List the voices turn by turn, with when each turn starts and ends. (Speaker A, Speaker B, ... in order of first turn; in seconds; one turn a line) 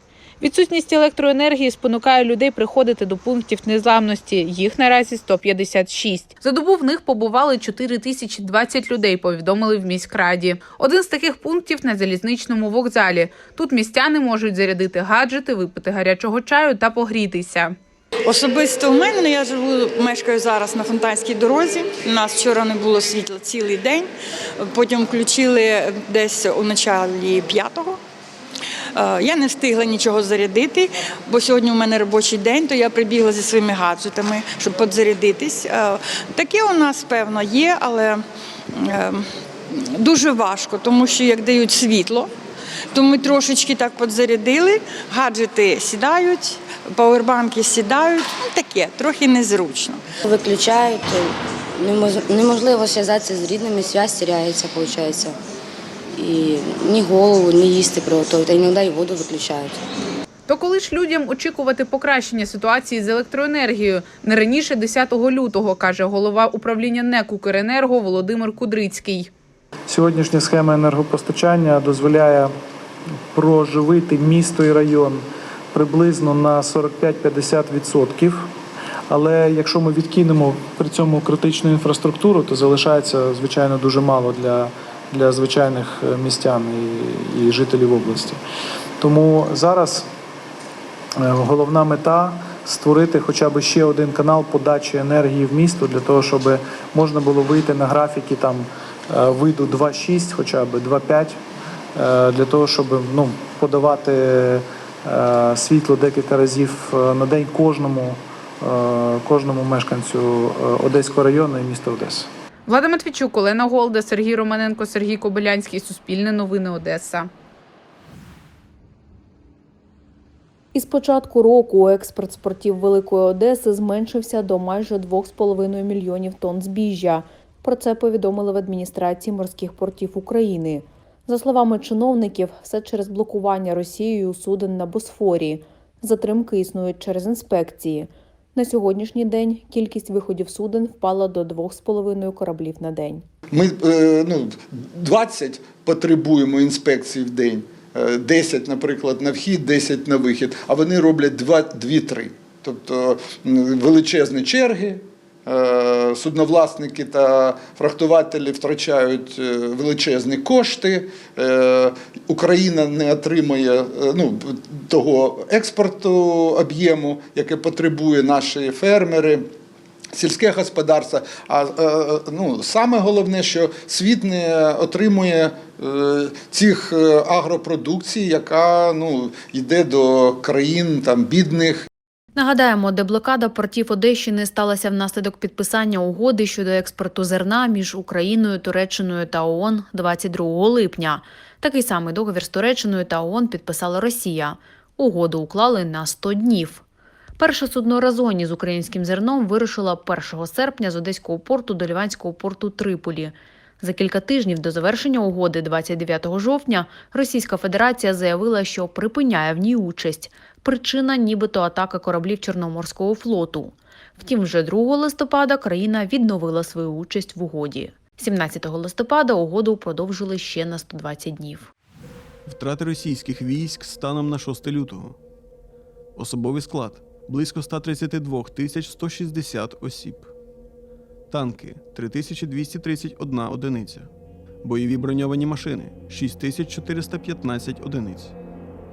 Speaker A: 0.4-17.7
Speaker B: 18.2-24.1
Speaker B: 24.6-28.0
Speaker B: 28.9-38.2
Speaker B: 38.8-42.3
Speaker B: 42.9-50.0
Speaker C: 50.2-51.3
Speaker C: 51.8-55.3
Speaker C: 56.2-59.7
Speaker A: 60.5-69.3
Speaker D: 69.9-72.5
Speaker D: 73.3-78.4
Speaker D: 79.1-88.4
Speaker D: 89.0-90.0
Speaker D: 91.2-101.4
Speaker D: 102.0-112.3
Speaker A: 112.7-117.3
Speaker E: 120.7-143.2
Speaker F: 143.5-169.4
Speaker F: 170.1-181.8
Speaker E: 182.3-196.8
Speaker E: 197.4-221.7
Speaker G: 222.4-225.2
Speaker G: 226.2-230.3
Speaker G: 231.3-234.1
Speaker G: 234.6-238.3